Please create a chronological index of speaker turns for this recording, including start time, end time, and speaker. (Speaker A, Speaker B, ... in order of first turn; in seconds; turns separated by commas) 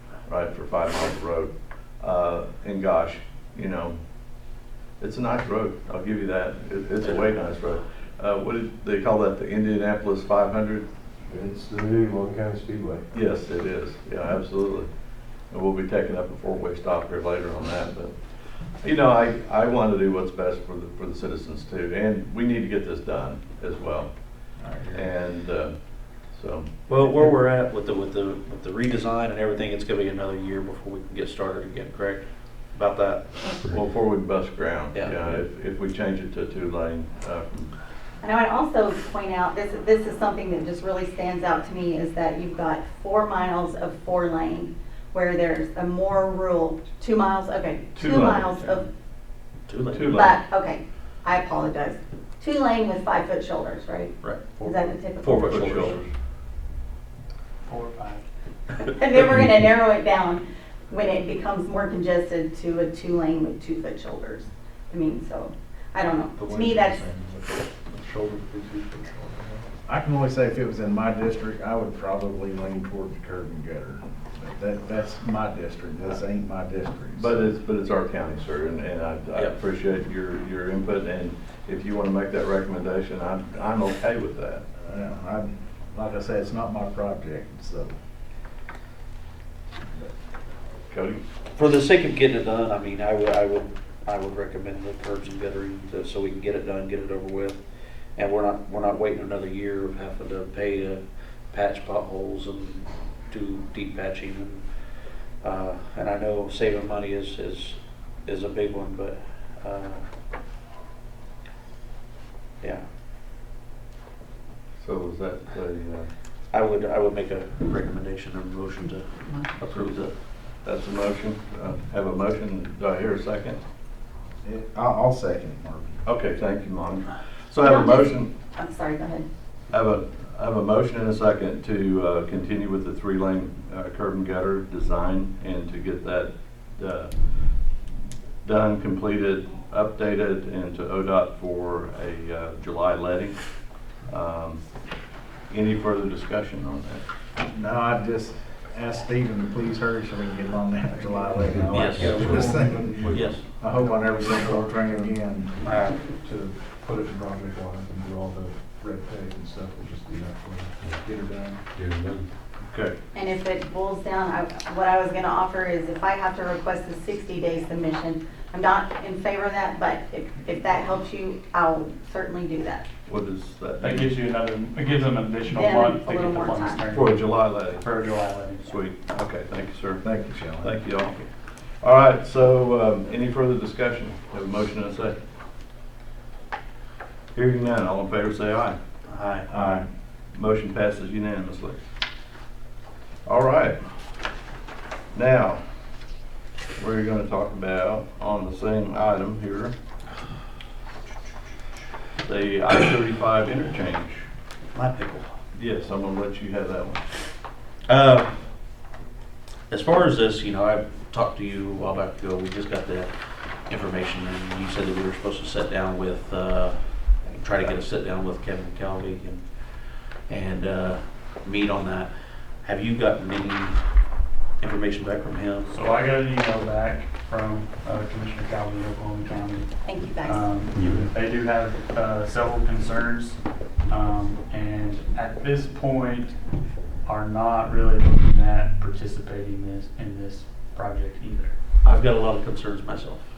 Speaker A: 0.2-4.0, Speaker A: 5.0-10.8, Speaker B: 11.3-13.0, Speaker A: 13.1-14.9, Speaker A: 15.5-18.2, Speaker A: 18.7-26.7, Speaker C: 24.6-25.1, Speaker D: 26.9-33.6, Speaker A: 33.7-37.7, Speaker D: 34.9-35.4, Speaker E: 38.2-48.9, Speaker A: 47.9-48.8, Speaker D: 49.7-50.2, Speaker A: 49.9-50.4, Speaker E: 50.1-56.0, Speaker D: 54.2-56.0, Speaker A: 55.3-56.1, Speaker F: 57.6-58.2, Speaker E: 58.8-67.0, Speaker B: 66.4-69.7, Speaker C: 69.9-77.5, Speaker A: 77.1-84.6, Speaker C: 84.8-87.9, Speaker A: 90.9-91.2, Speaker D: 91.5-97.6, Speaker D: 98.2-110.0, Speaker A: 114.8-116.1, Speaker D: 116.5-120.1, Speaker A: 119.7-120.1, Speaker A: 120.6-123.6, Speaker C: 124.4-126.0, Speaker A: 126.0-128.3, Speaker E: 127.6-129.2, Speaker A: 129.7-137.1, Speaker A: 138.4-144.8, Speaker A: 145.5-147.0, Speaker C: 147.5-155.5, Speaker D: 151.7-152.5, Speaker B: 151.9-155.2, Speaker D: 153.1-153.4, Speaker D: 155.6-156.0, Speaker B: 156.1-161.6, Speaker A: 162.7-162.9, Speaker E: 163.1-172.8, Speaker A: 173.1-174.1, Speaker F: 173.8-178.8, Speaker E: 175.4-176.8, Speaker A: 176.9-177.9, Speaker A: 178.6-180.0, Speaker C: 180.0-180.7, Speaker A: 180.6-185.2, Speaker A: 187.3-188.8, Speaker D: 189.1-189.5, Speaker C: 189.5-189.8, Speaker A: 190.3-191.8, Speaker A: 193.2-193.8, Speaker A: 195.1-195.6, Speaker A: 196.8-199.7, Speaker A: 202.2-204.2, Speaker D: 204.7-205.3, Speaker A: 205.5-207.0, Speaker D: 207.9-208.3, Speaker D: 209.7-223.8, Speaker D: 224.6-225.7, Speaker F: 225.7-236.4, Speaker E: 229.8-230.4, Speaker F: 237.0-241.5, Speaker D: 241.8-243.2